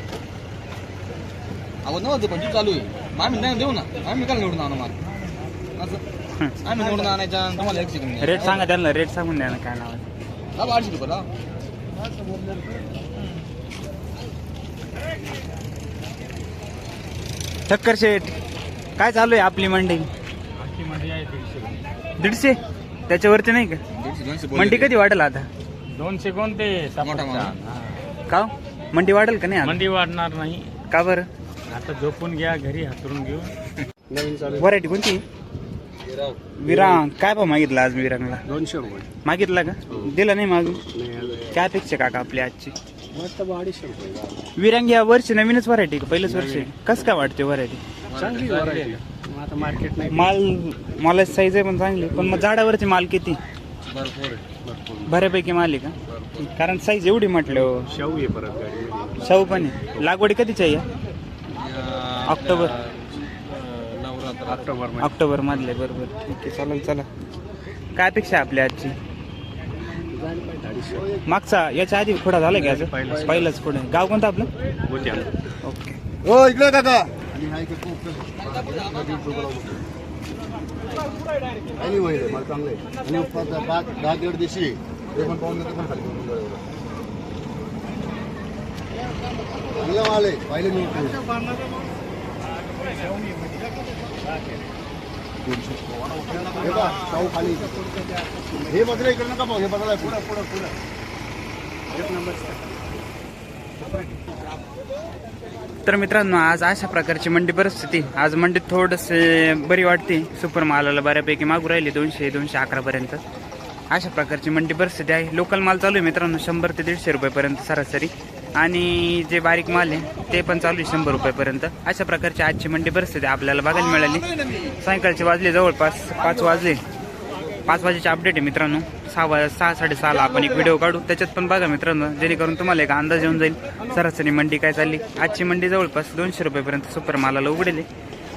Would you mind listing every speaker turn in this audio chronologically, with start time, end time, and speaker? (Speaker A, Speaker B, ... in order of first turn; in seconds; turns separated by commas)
Speaker A: 1.8-5.0, Speaker A: 5.8-6.0, Speaker A: 6.6-8.7, Speaker B: 8.2-10.0, Speaker A: 10.5-11.3, Speaker B: 17.7-18.3, Speaker B: 19.0-20.1, Speaker C: 20.6-21.8, Speaker B: 22.2-22.6, Speaker B: 23.1-23.8, Speaker A: 23.9-24.9, Speaker B: 24.5-25.5, Speaker C: 25.9-27.6, Speaker A: 27.0-27.9, Speaker B: 28.3-29.8, Speaker C: 29.6-30.8, Speaker B: 30.9-31.3, Speaker C: 31.7-33.5, Speaker D: 34.1-34.6, Speaker B: 34.5-35.2, Speaker B: 36.6-38.4, Speaker D: 36.6-37.0, Speaker D: 38.5-39.0, Speaker B: 39.2-40.8, Speaker D: 40.9-41.5, Speaker B: 41.5-42.7, Speaker D: 43.1-44.4, Speaker B: 44.5-47.8, Speaker D: 46.3-46.7, Speaker A: 48.1-49.0, Speaker D: 48.1-50.3, Speaker B: 50.1-53.4, Speaker A: 53.9-54.4, Speaker D: 54.5-55.1, Speaker B: 55.0-57.9, Speaker D: 57.5-59.2, Speaker B: 59.2-60.8, Speaker D: 61.6-65.1, Speaker B: 62.2-62.8, Speaker B: 65.0-67.1, Speaker B: 67.9-68.9, Speaker D: 70.1-71.2, Speaker B: 71.3-74.5, Speaker D: 72.5-73.5, Speaker D: 74.9-75.3, Speaker B: 75.6-76.0, Speaker E: 76.2-79.8, Speaker A: 78.5-79.2, Speaker E: 81.8-86.6, Speaker E: 89.8-91.3, Speaker E: 95.5-95.8, Speaker E: 96.5-97.7, Speaker D: 96.5-99.1, Speaker E: 98.7-100.2, Speaker D: 100.2-100.5, Speaker D: 101.9-102.6, Speaker B: 105.8-113.2, Speaker B: 113.9-124.3, Speaker B: 124.8-126.8, Speaker B: 127.7-137.8